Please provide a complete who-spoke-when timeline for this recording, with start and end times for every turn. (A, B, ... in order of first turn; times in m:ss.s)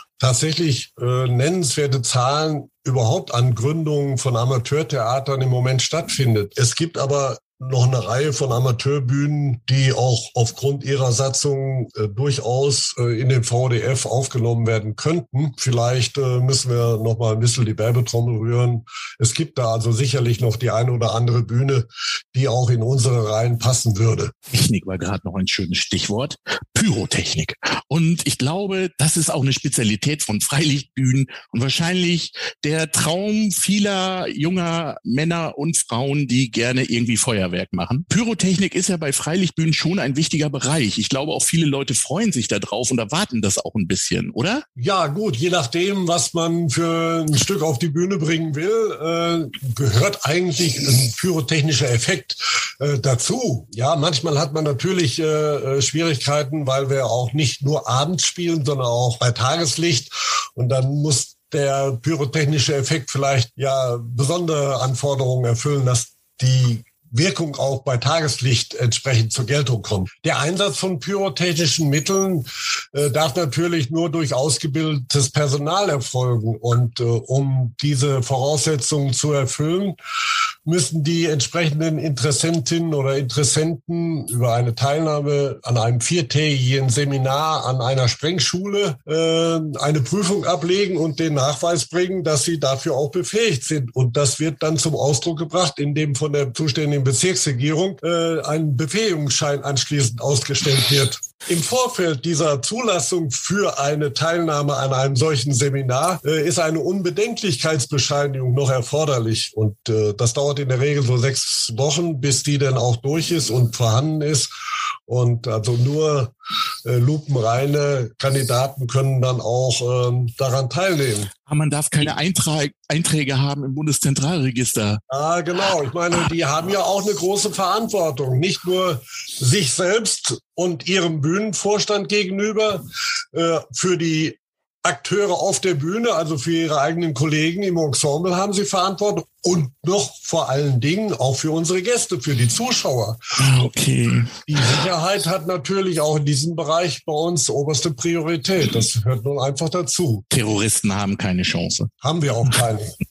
0:00.2-0:24.3 A
0:24.5-0:44.6 B
0:44.8-1:20.0 A
1:20.7-1:54.5 A
1:55.1-1:56.3 A
1:56.8-2:01.3 A
2:01.5-2:05.0 B
2:05.1-2:23.2 A
2:23.4-2:24.8 B
2:24.5-2:30.2 A
2:30.3-2:31.9 B
2:32.0-2:33.0 A